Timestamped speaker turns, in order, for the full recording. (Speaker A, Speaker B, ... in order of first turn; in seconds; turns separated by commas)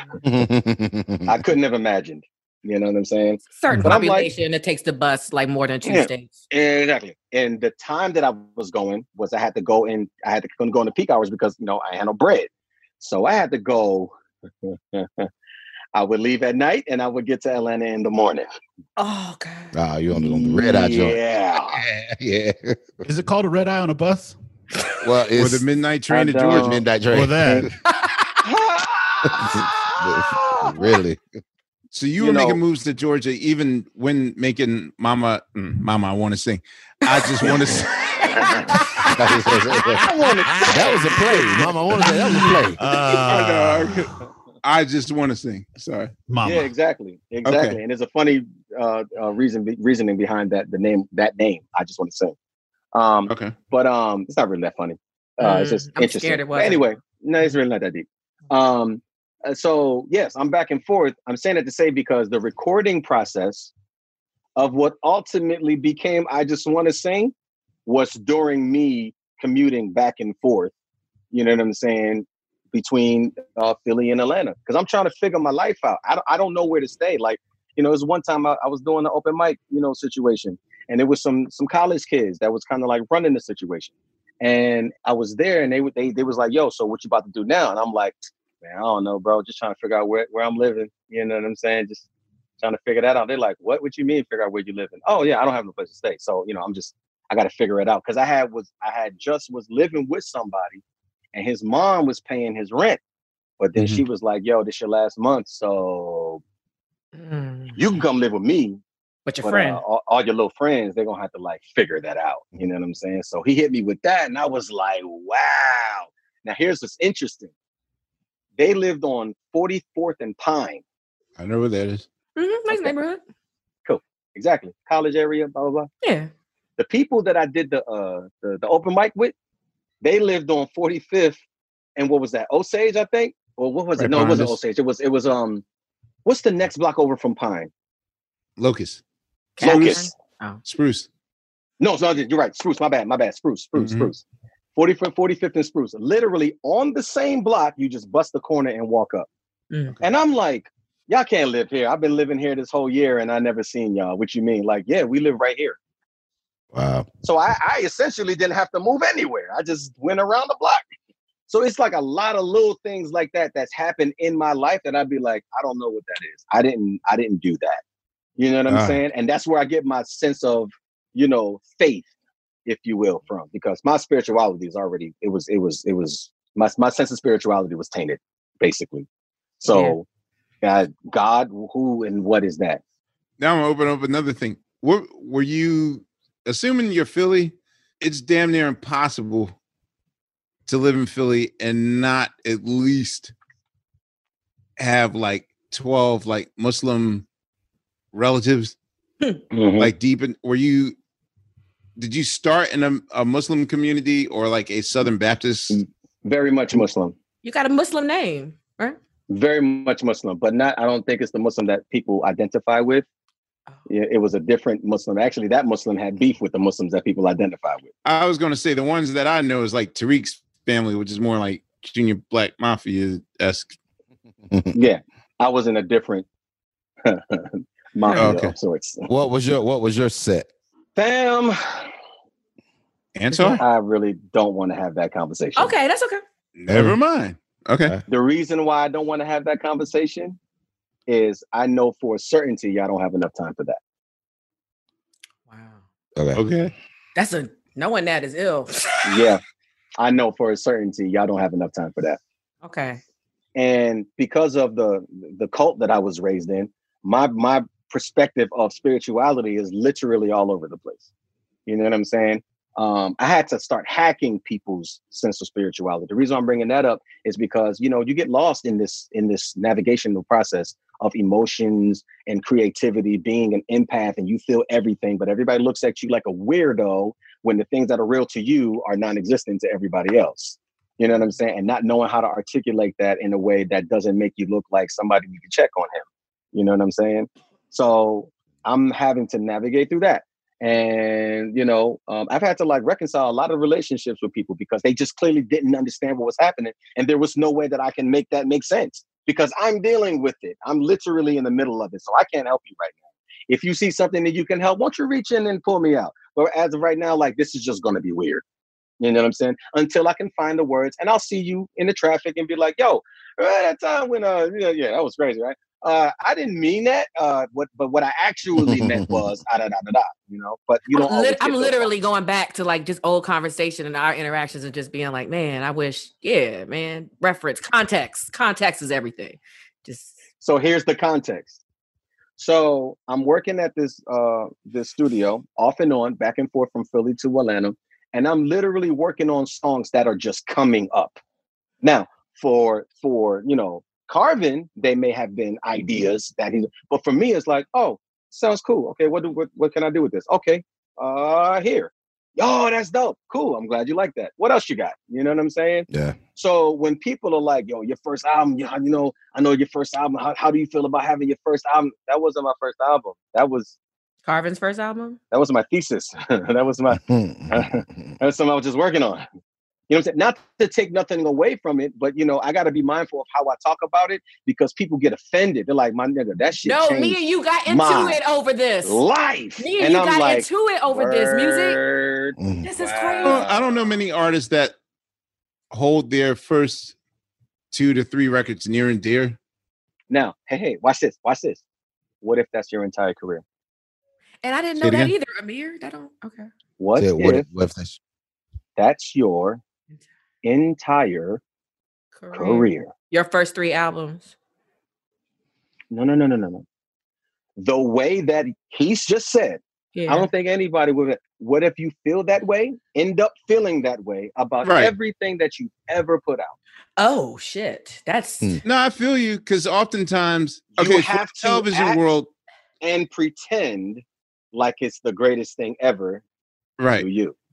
Speaker A: 0.2-1.4, Speaker B: 1.3-4.3, Speaker C: 3.5-6.4, Speaker B: 5.8-12.5, Speaker B: 13.0-14.1, Speaker B: 14.6-15.3, Speaker B: 15.9-18.5, Speaker C: 19.0-19.7, Speaker A: 19.7-21.2, Speaker B: 20.1-21.8, Speaker A: 21.7-22.8, Speaker D: 23.0-24.4, Speaker A: 25.0-25.6, Speaker E: 25.4-26.8, Speaker B: 26.1-26.8, Speaker A: 26.5-27.7, Speaker D: 27.1-27.7, Speaker C: 27.9-28.4, Speaker B: 28.4-30.9, Speaker A: 29.3-31.2, Speaker E: 31.9-37.9, Speaker B: 32.2-32.6, Speaker B: 37.5-38.8, Speaker C: 37.5-39.1, Speaker A: 39.2-40.0, Speaker B: 40.0-41.7, Speaker A: 40.7-42.8, Speaker D: 42.8-44.0, Speaker E: 43.3-44.1, Speaker E: 44.6-46.1, Speaker D: 46.3-46.7, Speaker B: 46.4-52.4, Speaker E: 47.5-47.8, Speaker B: 52.9-63.7, Speaker E: 53.3-53.5, Speaker C: 55.4-56.9, Speaker B: 64.6-67.3, Speaker B: 67.9-70.7, Speaker B: 71.3-92.1, Speaker B: 92.6-100.8, Speaker B: 101.3-103.0, Speaker B: 103.6-106.4, Speaker E: 103.8-104.0, Speaker C: 107.2-108.0, Speaker B: 107.8-108.8, Speaker C: 109.3-109.8, Speaker B: 109.4-117.5, Speaker B: 118.6-120.8, Speaker E: 121.4-122.1, Speaker C: 122.4-123.2, Speaker B: 123.9-125.9, Speaker C: 126.0-126.3, Speaker B: 126.8-129.3, Speaker B: 130.0-131.4, Speaker B: 132.0-135.6, Speaker E: 134.0-134.6, Speaker B: 136.3-137.7, Speaker E: 138.6-139.0, Speaker C: 139.6-140.6, Speaker B: 139.6-140.1, Speaker E: 139.6-140.0, Speaker E: 140.7-141.1, Speaker B: 141.8-144.2, Speaker E: 143.8-144.1, Speaker B: 144.8-149.3, Speaker C: 149.7-150.0, Speaker B: 150.0-155.8, Speaker A: 156.7-157.1, Speaker B: 157.2-160.8, Speaker B: 161.5-167.8, Speaker B: 168.4-172.1, Speaker E: 168.7-169.0, Speaker B: 172.7-179.1, Speaker B: 179.6-180.1, Speaker C: 179.7-179.9, Speaker B: 180.6-182.8, Speaker E: 183.4-189.5, Speaker E: 190.7-193.3, Speaker E: 194.8-197.2, Speaker E: 198.1-198.8, Speaker B: 199.5-199.9, Speaker E: 199.8-200.9, Speaker E: 202.0-205.8, Speaker B: 205.7-207.2, Speaker C: 207.4-209.0, Speaker B: 209.3-213.1, Speaker B: 213.9-217.9, Speaker E: 218.1-223.7, Speaker B: 224.8-226.3, Speaker B: 227.1-229.1, Speaker E: 228.2-228.5, Speaker A: 229.1-230.5, Speaker B: 231.0-231.8, Speaker E: 233.2-233.6, Speaker C: 233.3-233.6, Speaker B: 233.6-235.7, Speaker C: 235.6-236.2, Speaker E: 236.6-237.9, Speaker A: 236.7-237.0, Speaker B: 238.1-240.4, Speaker B: 241.1-243.8, Speaker C: 245.5-245.8, Speaker A: 246.2-246.4, Speaker E: 246.3-246.7, Speaker C: 247.2-249.2, Speaker B: 249.0-249.4, Speaker B: 250.0-252.2, Speaker C: 252.6-253.0, Speaker B: 253.6-261.1, Speaker B: 261.7-308.4, Speaker B: 309.0-321.9, Speaker A: 318.6-319.3, Speaker C: 320.9-330.2, Speaker B: 330.4-331.6, Speaker B: 332.4-341.2, Speaker B: 341.8-363.8, Speaker A: 355.9-356.2, Speaker C: 364.3-365.2, Speaker B: 365.3-369.2, Speaker A: 366.9-367.9, Speaker B: 369.9-378.2, Speaker C: 376.6-379.0, Speaker B: 378.8-383.9, Speaker C: 379.6-381.8, Speaker A: 382.4-382.6, Speaker C: 382.6-383.4, Speaker E: 383.2-384.8, Speaker E: 385.7-386.9, Speaker E: 387.7-389.4, Speaker B: 390.1-391.6, Speaker B: 392.2-393.4, Speaker C: 394.4-396.5, Speaker E: 394.8-395.1, Speaker B: 396.8-397.4, Speaker A: 397.0-398.0, Speaker B: 398.8-399.6, Speaker B: 400.4-401.4, Speaker C: 402.1-404.3, Speaker B: 402.3-402.9, Speaker B: 405.9-406.6, Speaker B: 407.6-416.6, Speaker C: 409.9-410.3, Speaker E: 414.6-414.9, Speaker C: 417.0-418.5, Speaker E: 418.6-422.3, Speaker B: 420.8-422.0, Speaker B: 422.8-426.2, Speaker E: 426.8-427.1, Speaker B: 427.0-427.3